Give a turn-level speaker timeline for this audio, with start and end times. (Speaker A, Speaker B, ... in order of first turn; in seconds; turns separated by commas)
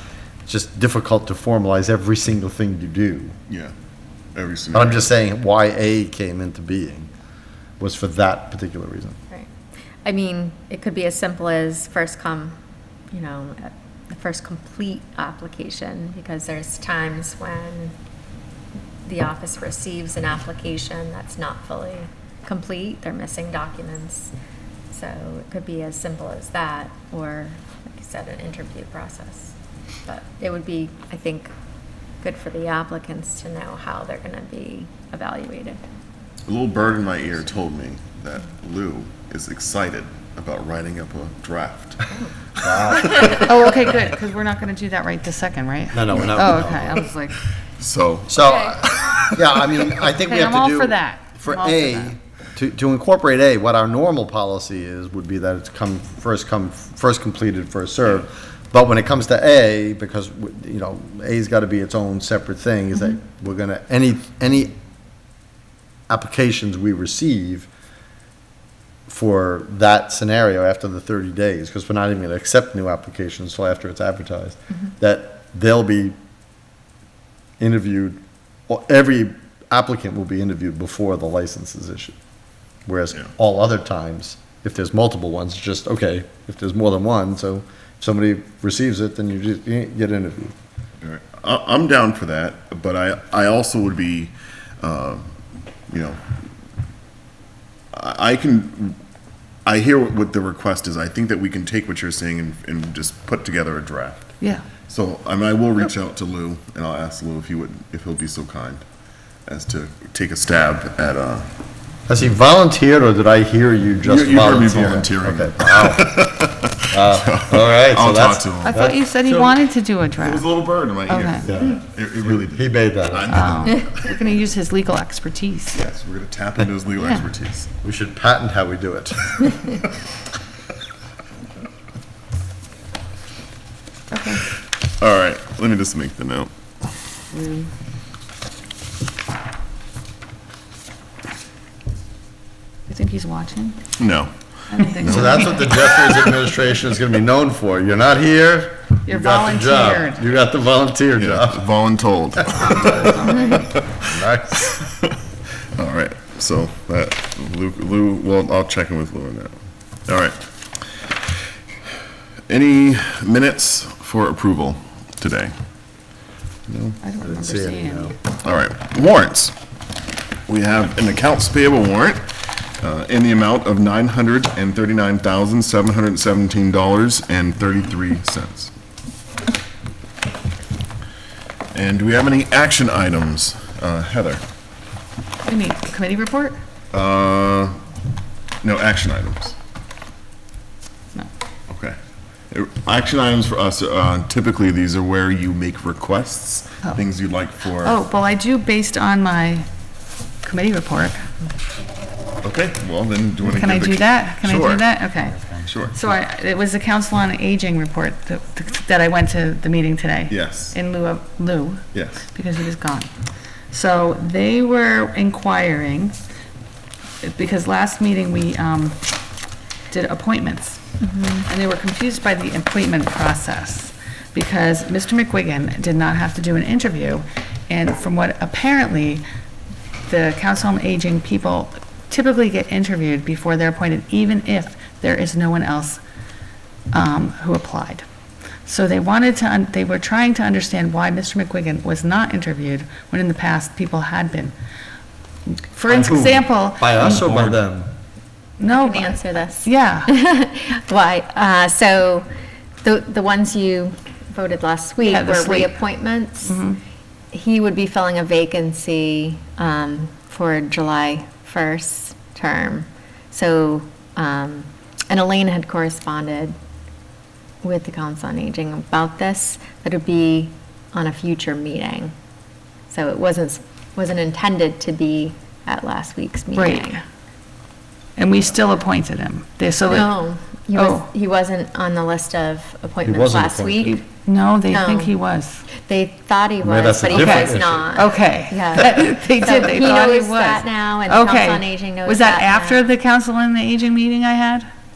Speaker A: 0.5-3.3, Speaker B: 3.5-3.7, Speaker B: 4.3-5.0, Speaker A: 4.7-7.1, Speaker A: 7.8-9.2, Speaker C: 10.0-12.6, Speaker C: 13.1-17.9, Speaker C: 19.0-24.3, Speaker C: 24.9-31.5, Speaker C: 32.2-35.8, Speaker B: 36.5-42.0, Speaker A: 42.6-43.5, Speaker C: 42.9-43.4, Speaker D: 43.2-47.4, Speaker A: 45.9-47.0, Speaker B: 47.8-49.9, Speaker A: 48.3-64.8, Speaker D: 50.2-52.1, Speaker A: 66.1-67.7, Speaker A: 69.1-76.2, Speaker A: 77.6-82.2, Speaker A: 82.8-90.5, Speaker B: 91.0-95.3, Speaker B: 95.9-96.2, Speaker B: 97.9-99.0, Speaker B: 99.6-104.3, Speaker D: 104.4-104.7, Speaker B: 104.9-108.8, Speaker B: 109.5-111.5, Speaker A: 112.1-116.1, Speaker B: 114.0-119.5, Speaker A: 116.9-119.0, Speaker D: 118.6-120.5, Speaker B: 120.2-124.2, Speaker D: 121.1-121.4, Speaker A: 121.4-123.6, Speaker D: 123.3-125.8, Speaker B: 125.7-127.7, Speaker D: 127.0-127.3, Speaker A: 127.8-129.6, Speaker D: 134.1-134.4, Speaker B: 135.0-136.5, Speaker D: 142.9-143.8, Speaker B: 144.0-145.5, Speaker D: 144.7-145.7, Speaker A: 145.0-151.7, Speaker D: 149.1-150.2, Speaker B: 151.2-154.0, Speaker A: 152.6-153.3, Speaker D: 152.6-153.6, Speaker A: 154.0-154.8, Speaker B: 155.8-159.5, Speaker B: 160.1-160.4, Speaker B: 162.5-165.5, Speaker B: 166.7-167.0, Speaker D: 167.0-168.1, Speaker A: 167.2-168.1, Speaker B: 168.4-169.5, Speaker B: 170.5-178.7, Speaker B: 181.7-184.4, Speaker D: 185.4-186.6, Speaker B: 186.9-187.8, Speaker B: 188.6-189.6, Speaker B: 191.7-192.0, Speaker B: 192.5-198.0, Speaker D: 197.8-199.7, Speaker D: 200.4-201.2, Speaker B: 202.4-204.9, Speaker D: 203.4-213.1, Speaker B: 205.6-205.9, Speaker B: 210.3-210.7, Speaker B: 211.9-212.2, Speaker D: 213.7-216.2, Speaker D: 217.2-219.0, Speaker D: 219.9-220.8, Speaker C: 221.0-221.5, Speaker D: 221.4-229.2, Speaker D: 230.1-236.0, Speaker D: 236.9-238.0, Speaker D: 238.6-244.5, Speaker D: 245.7-247.6, Speaker A: 245.9-247.9, Speaker D: 248.6-250.1, Speaker C: 248.6-252.3, Speaker C: 252.8-256.6, Speaker D: 255.0-255.8, Speaker D: 256.4-256.8, Speaker C: 257.3-266.5, Speaker C: 267.6-272.1, Speaker C: 272.9-277.0, Speaker D: 276.5-277.0, Speaker D: 278.2-280.2, Speaker C: 279.9-284.1, Speaker D: 280.8-281.1, Speaker A: 283.0-284.0, Speaker D: 284.1-285.6, Speaker C: 284.7-285.1, Speaker C: 285.7-292.8, Speaker A: 286.6-287.9, Speaker D: 287.1-294.7